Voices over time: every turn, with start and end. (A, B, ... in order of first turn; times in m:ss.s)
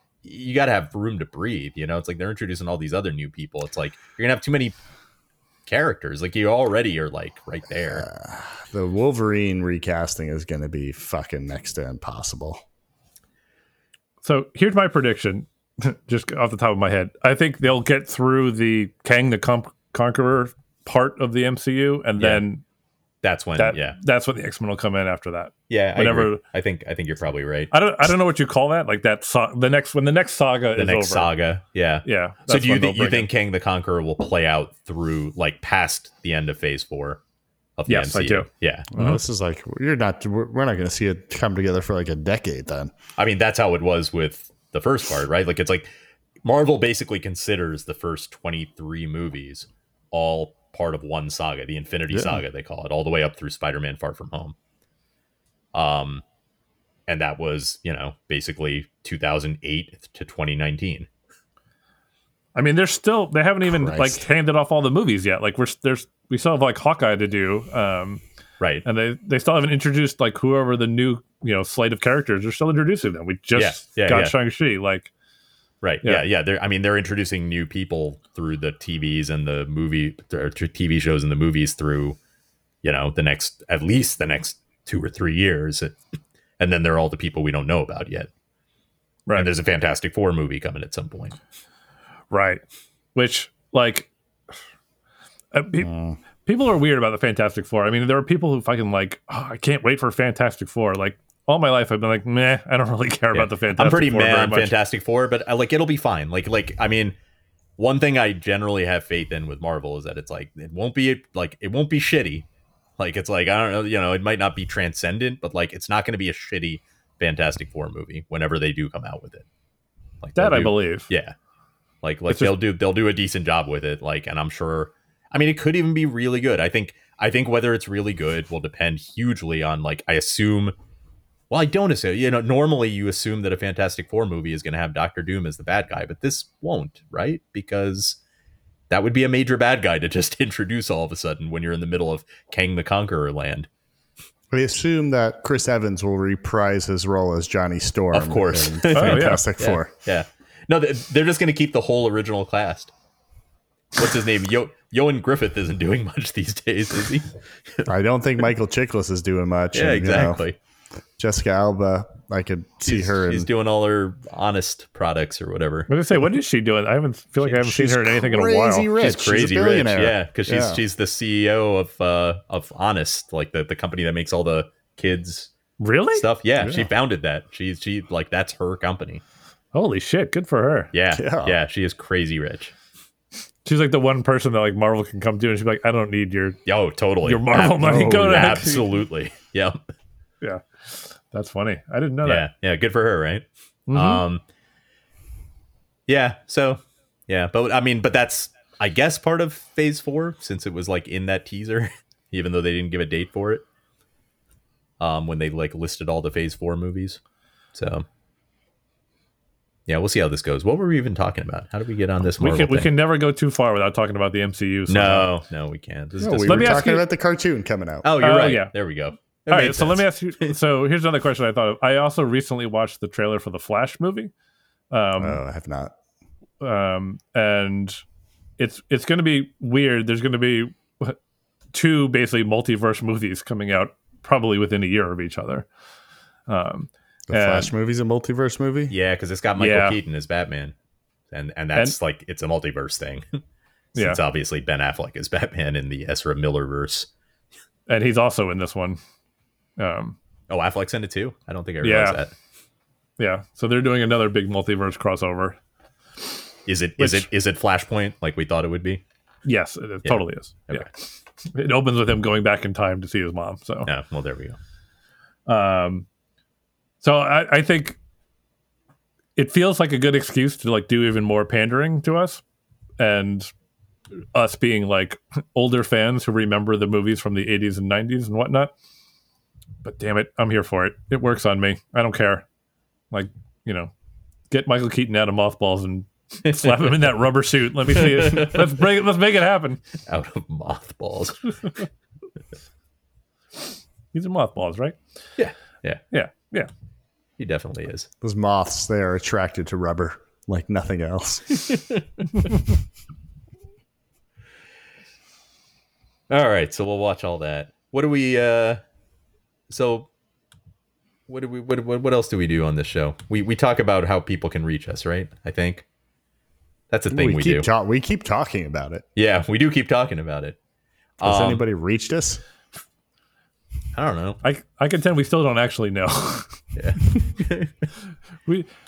0:00.2-0:04.8 A
0:05.6-0:08.1 A
0:07.9-0:12.6 B
0:14.2-0:22.6 C
0:22.2-0:22.4 A
0:23.2-0:24.0 A
0:23.6-0:26.4 C
0:25.7-0:27.7 A
0:27.7-0:31.3 C
0:30.8-0:37.2 A
0:32.0-0:33.3 C
0:37.8-0:38.9 A
0:37.9-0:39.2 C
0:38.9-0:42.9 B
0:43.2-0:45.9 A
0:46.4-0:54.6 A
0:52.1-0:52.4 B
0:55.7-0:56.2 A
0:57.1-1:01.1 A
1:02.6-1:08.2 C
1:03.9-1:04.1 B
1:08.6-1:08.9 A
1:08.8-1:15.1 C
1:13.6-1:14.3 A
1:15.8-1:22.2 A
1:22.8-1:26.0 A
1:26.6-1:28.3 A
1:29.3-1:31.4 A
1:32.3-1:32.6 C
1:33.1-1:34.1 C
1:35.5-1:35.9 C
1:35.8-1:36.2 B
1:36.4-1:44.7 C
1:43.3-1:47.2 A
1:47.8-1:52.5 A
1:53.0-1:59.4 A
2:00.2-2:01.3 A
2:00.4-2:01.1 C
2:02.0-2:10.7 A
2:02.3-2:02.5 C
2:11.5-2:18.2 A
2:18.9-2:23.7 A
2:24.5-2:29.9 B
2:28.1-2:32.9 A
2:28.9-2:29.4 C
2:34.0-2:37.9 A
2:37.9-2:40.4 B
2:39.7-2:40.6 A
2:41.2-2:43.5 B
2:42.8-2:45.9 A
2:45.9-2:48.9 C
2:47.6-2:50.8 B
2:49.0-2:55.5 A
2:55.8-2:56.2 C
2:56.1-2:59.2 A
2:56.6-2:56.9 B
2:59.7-3:00.9 C
3:00.9-3:02.7 A
3:01.1-3:01.6 B
3:03.6-3:06.6 C
3:06.6-3:09.8 A
3:07.2-3:08.8 C
3:07.8-3:08.6 B
3:10.4-3:12.5 C
3:12.2-3:14.4 A
3:13.9-3:14.2 C
3:16.1-3:23.6 A
3:25.0-3:27.2 A
3:27.7-3:28.0 A
3:29.9-3:32.9 A
3:32.4-3:35.3 C
3:34.9-3:36.9 A
3:36.2-3:38.1 B
3:36.5-3:37.0 C
3:38.0-3:40.6 A
3:38.2-3:38.7 C
3:39.5-3:44.3 C
3:44.9-3:45.4 C
3:45.2-3:45.9 B
3:46.6-3:48.0 C
3:48.6-3:51.2 C
3:51.7-3:55.7 C
3:56.5-3:57.7 C
3:57.3-3:58.9 B
3:58.9-4:00.7 A
3:59.6-4:00.0 C
4:01.3-4:03.4 A
4:04.0-4:07.1 A
4:07.9-4:09.0 C
4:09.8-4:10.2 C
4:10.5-4:12.3 A
4:11.8-4:12.2 C
4:13.2-4:15.6 C
4:16.6-4:19.0 A
4:17.0-4:17.2 C
4:19.4-4:23.9 C
4:20.0-4:20.9 A
4:23.9-4:24.6 A
4:25.5-4:26.1 C
4:27.0-4:28.0 C
4:29.4-4:32.4 C
4:33.0-4:33.5 C
4:34.3-4:38.7 C
4:39.8-4:42.4 C
4:43.1-4:43.9 C
4:44.5-4:49.8 C
4:46.5-4:46.7 A
4:48.2-4:48.6 A
4:50.0-4:51.6 A
4:54.1-4:55.0 C
4:55.4-4:56.0 A
4:56.1-4:56.7 C
4:57.4-4:58.1 A
4:58.2-5:01.6 B
5:01.6-5:02.0 A
5:06.3-5:08.8 A
5:09.7-5:10.1 A
5:11.3-5:15.8 A
5:16.9-5:17.7 A
5:17.1-5:19.0 B
5:19.2-5:20.6 A
5:21.2-5:22.4 B
5:21.2-5:21.6 A
5:23.9-5:24.4 A
5:24.4-5:26.6 C
5:26.7-5:27.9 A